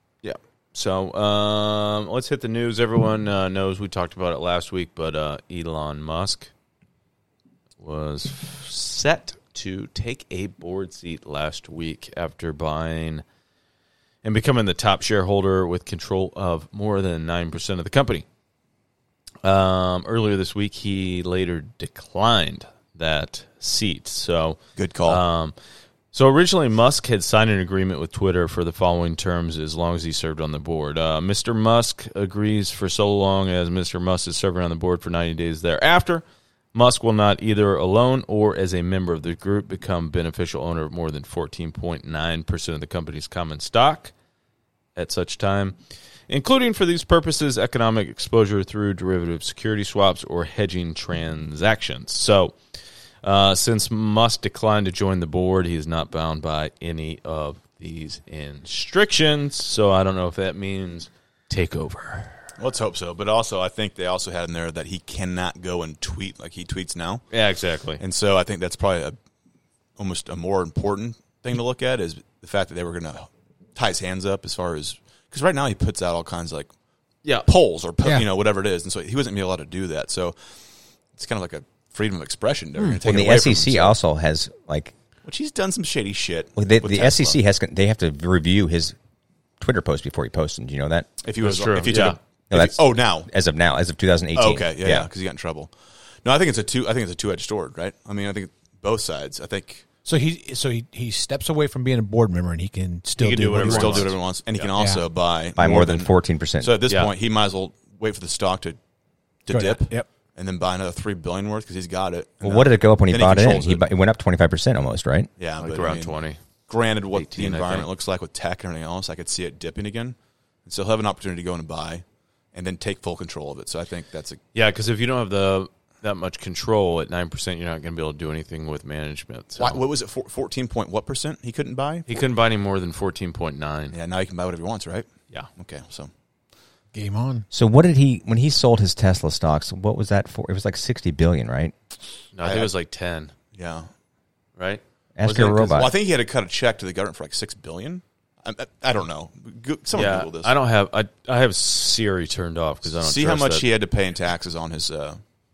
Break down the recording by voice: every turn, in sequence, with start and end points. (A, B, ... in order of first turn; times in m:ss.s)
0:00.2-0:06.5 A
0:07.8-0:13.2 A
0:14.2-0:18.2 A
0:19.4-0:25.5 A
0:24.8-0:25.2 B
0:26.1-0:44.1 A
0:45.0-0:45.8 A
0:46.3-0:52.6 A
0:53.2-1:02.4 A
1:02.6-1:07.2 B
1:07.3-1:08.0 A
1:08.0-1:09.2 B
1:10.0-1:16.7 B
1:17.4-1:20.4 B
1:21.1-1:23.9 B
1:23.0-1:24.9 C
1:25.2-1:27.4 B
1:26.6-1:29.0 C
1:29.6-1:31.1 C
1:31.2-1:33.3 B
1:31.4-1:32.2 A
1:32.5-1:35.1 C
1:34.3-1:35.7 B
1:36.2-1:39.8 B
1:40.0-1:44.1 D
1:43.2-1:44.7 A
1:43.6-1:48.8 B
1:44.8-1:45.0 D
1:45.6-1:46.8 C
1:46.9-1:47.1 A
1:49.4-1:53.8 B
1:49.5-1:50.1 D
1:52.4-1:55.3 C
1:55.4-1:56.2 B
1:55.6-1:56.4 A
1:56.7-2:04.4 B
1:57.1-1:57.9 A
2:04.5-2:09.8 A
2:09.6-2:12.0 B
2:12.1-2:14.0 A
2:13.9-2:16.1 B
2:16.9-2:17.4 D
2:17.5-2:21.7 C
2:22.3-2:23.3 A
2:22.4-2:22.7 B
2:23.5-2:23.9 B
2:25.2-2:25.9 C
2:25.2-2:30.5 B
2:29.9-2:33.7 A
2:32.9-2:35.2 B